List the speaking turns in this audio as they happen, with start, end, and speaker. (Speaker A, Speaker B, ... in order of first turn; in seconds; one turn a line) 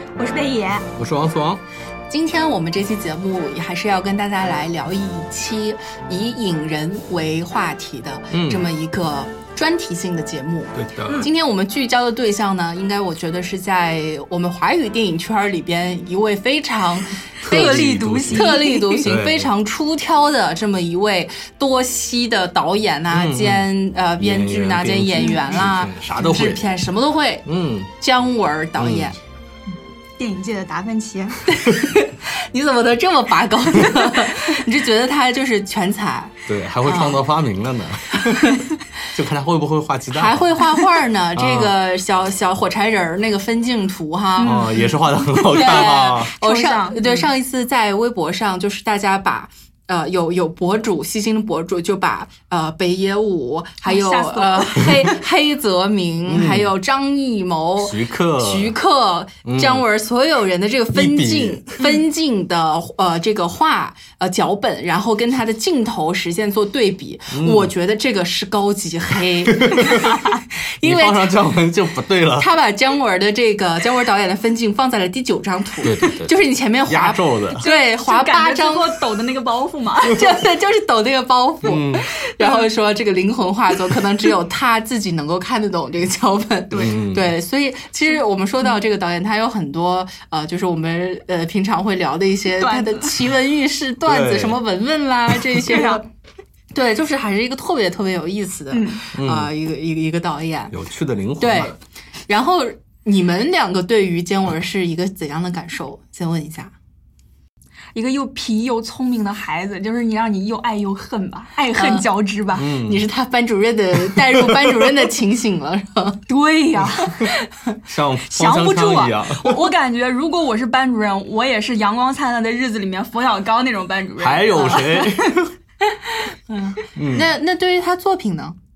Speaker A: 0.2-0.9
Speaker B: 1.0-1.6
Speaker C: 2.1-27.5
Speaker B: 8.3-8.7
Speaker B: 10.7-11.3
Speaker B: 17.4-19.5
Speaker A: 17.5-19.1
Speaker B: 23.1-26.7
Speaker B: 27.4-27.9
Speaker C: 28.0-29.1
Speaker B: 28.8-29.1
Speaker A: 30.2-31.4
Speaker C: 31.5-37.2
Speaker B: 36.5-40.5
Speaker C: 40.1-44.9
Speaker B: 41.3-41.7
Speaker A: 44.4-47.3
Speaker B: 44.4-46.3
Speaker C: 45.5-71.5
Speaker A: 53.8-55.2
Speaker B: 56.3-56.7
Speaker B: 57.8-58.8
Speaker B: 59.4-59.8
Speaker B: 60.9-61.6
Speaker B: 67.3-67.7
Speaker B: 69.5-70.2
Speaker B: 70.8-72.5
Speaker C: 72.3-79.0
Speaker B: 75.8-76.3
Speaker B: 76.9-77.6
Speaker A: 77.6-80.2
Speaker C: 80.1-96.0
Speaker B: 81.6-82.0
Speaker A: 82.4-82.6
Speaker A: 86.7-87.0
Speaker B: 86.7-87.3
Speaker A: 92.6-93.1
Speaker B: 94.0-94.6
Speaker A: 95.7-96.0
Speaker C: 96.7-100.7
Speaker A: 98.7-99.0
Speaker B: 99.1-99.5
Speaker B: 100.7-101.7
Speaker C: 101.4-101.8
Speaker C: 102.3-106.7
Speaker A: 107.9-112.7
Speaker C: 111.7-112.1
Speaker B: 112.5-113.1
Speaker C: 112.7-116.2
Speaker B: 114.2-114.8
Speaker A: 116.3-117.2
Speaker B: 117.9-119.7
Speaker A: 118.2-125.3
Speaker B: 124.2-125.5
Speaker C: 126.1-128.6
Speaker B: 127.0-127.3